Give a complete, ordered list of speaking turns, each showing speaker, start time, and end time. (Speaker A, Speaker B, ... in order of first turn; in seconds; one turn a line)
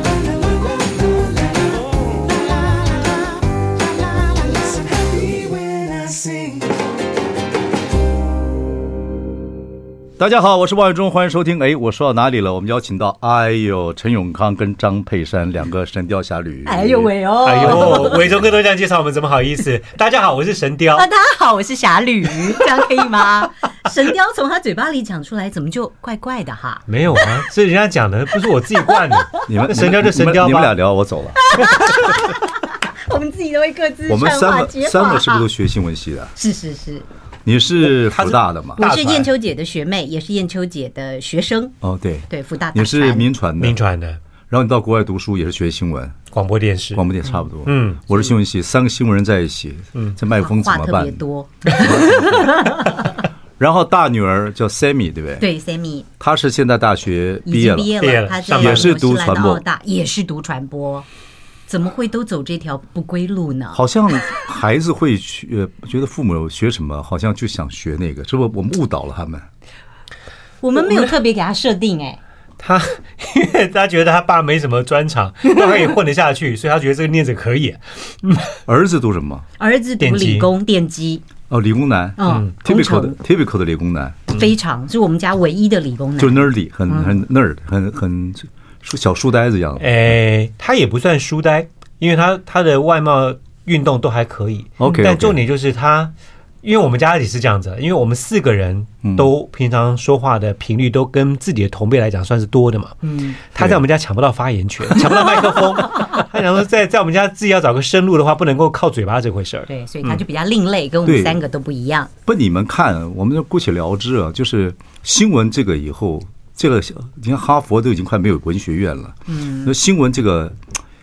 Speaker A: 5.5-6.5
Speaker A: 10.2-18.5
Speaker B: 16.6-18.2
Speaker C: 17.4-21.1
Speaker B: 20.9-26.8
Speaker C: 26.9-30.7
Speaker B: 28.9-29.4
Speaker A: 29.5-31.7
Speaker B: 31.4-35.5
Speaker A: 34.1-36.3
Speaker B: 36.4-37.1
Speaker A: 37.5-38.8
Speaker C: 38.0-39.3
Speaker B: 38.8-41.8
Speaker A: 41.8-43.8
Speaker B: 42.3-43.3
Speaker C: 43.6-44.2
Speaker A: 44.5-46.2
Speaker C: 46.3-47.1
Speaker A: 47.0-51.2
Speaker C: 47.6-48.2
Speaker B: 50.4-53.1
Speaker A: 51.7-52.6
Speaker A: 53.6-55.5
Speaker B: 55.4-56.1
Speaker A: 56.2-58.0
Speaker B: 57.5-61.1
Speaker C: 58.0-58.9
Speaker A: 58.5-59.6
Speaker B: 61.7-63.8
Speaker A: 63.8-69.5
Speaker B: 70.6-72.2
Speaker C: 72.6-78.5
Speaker A: 78.7-79.5
Speaker B: 79.6-81.2
Speaker C: 80.0-80.5
Speaker A: 81.5-84.3
Speaker B: 82.2-83.2
Speaker B: 84.3-87.2
Speaker A: 86.2-90.0
Speaker C: 89.8-103.0
Speaker A: 94.8-95.4
Speaker A: 99.0-99.3
Speaker B: 103.0-103.4
Speaker C: 103.5-110.2
Speaker A: 103.6-103.8
Speaker B: 109.7-112.1
Speaker A: 111.0-111.4
Speaker A: 112.3-120.6
Speaker B: 119.3-119.8